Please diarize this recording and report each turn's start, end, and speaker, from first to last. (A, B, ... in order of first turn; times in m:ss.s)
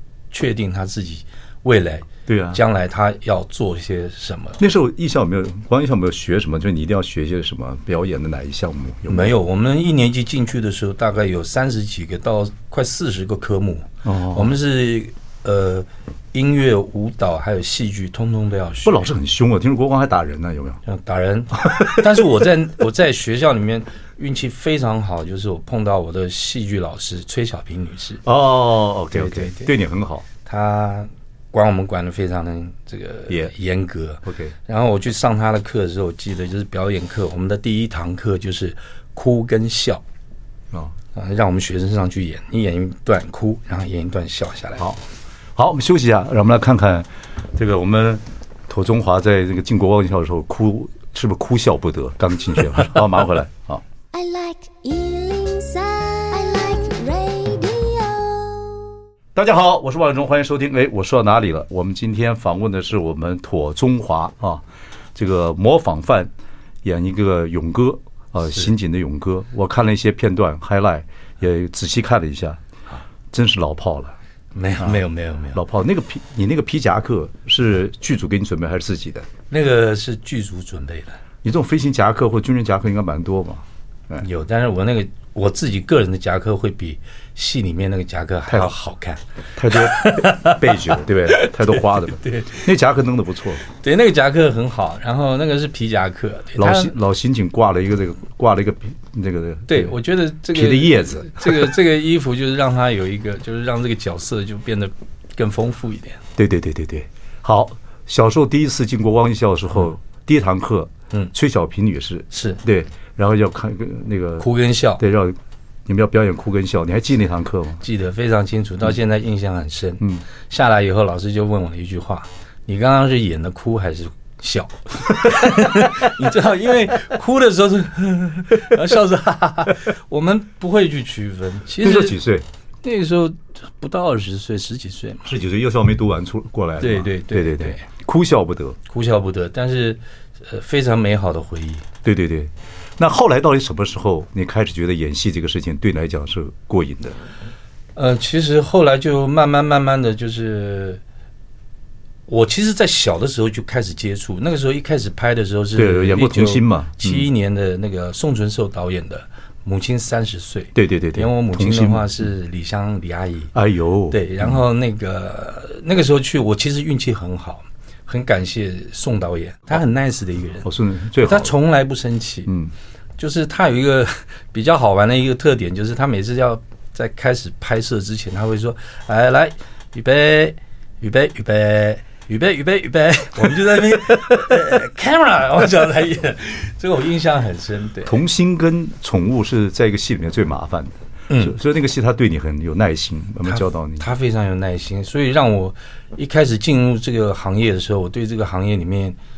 0:00.3-0:04.6 A
0:02.3-0:02.6 B
0:04.6-0:09.3 B
0:09.1-0:19.1 A
0:14.0-0:14.5 B
0:18.8-0:20.8 B
0:20.8-0:28.2 A
0:21.6-0:22.2 B
0:28.2-0:30.3 B
0:29.1-0:29.7 A
0:30.4-0:40.0 A
0:34.2-0:34.5 B
0:41.1-0:44.9 A
0:45.6-0:53.8 B
0:54.1-0:59.0 C
0:59.4-1:04.6 B
1:05.2-1:06.3 B
1:06.8-1:12.6 B
1:13.3-1:14.2 B
1:14.6-1:15.6 A
1:15.5-1:19.3 B
1:19.5-1:21.2 A
1:21.4-1:24.2 B
1:24.2-1:32.7 A
1:28.5-1:28.7 B
1:29.6-1:33.6 B
1:33.6-1:36.9 A
1:36.6-1:40.0 B
1:39.7-1:46.2 A
1:40.5-1:41.8 B
1:46.4-1:54.5 B
1:52.3-1:52.6 A
1:54.4-1:55.0 A
1:55.0-1:57.8 B
1:57.8-2:12.2 A
2:11.8-2:12.5 B
2:12.8-2:15.3 A
2:15.2-2:18.8 B
2:16.8-2:17.9 A
2:18.9-2:21.9 A
2:22.0-2:27.2 B
2:28.0-2:31.0 A
2:32.3-2:43.5 A
2:35.8-2:37.3 B
2:40.8-2:42.1 B
2:43.5-2:44.6 B
2:44.1-2:50.7 A
2:50.6-2:51.5 B
2:51.2-2:52.5 A
2:52.5-2:52.7 B
2:53.2-3:08.2 A
3:08.1-3:14.1 B
3:11.3-3:11.6 A
3:13.4-3:19.2 A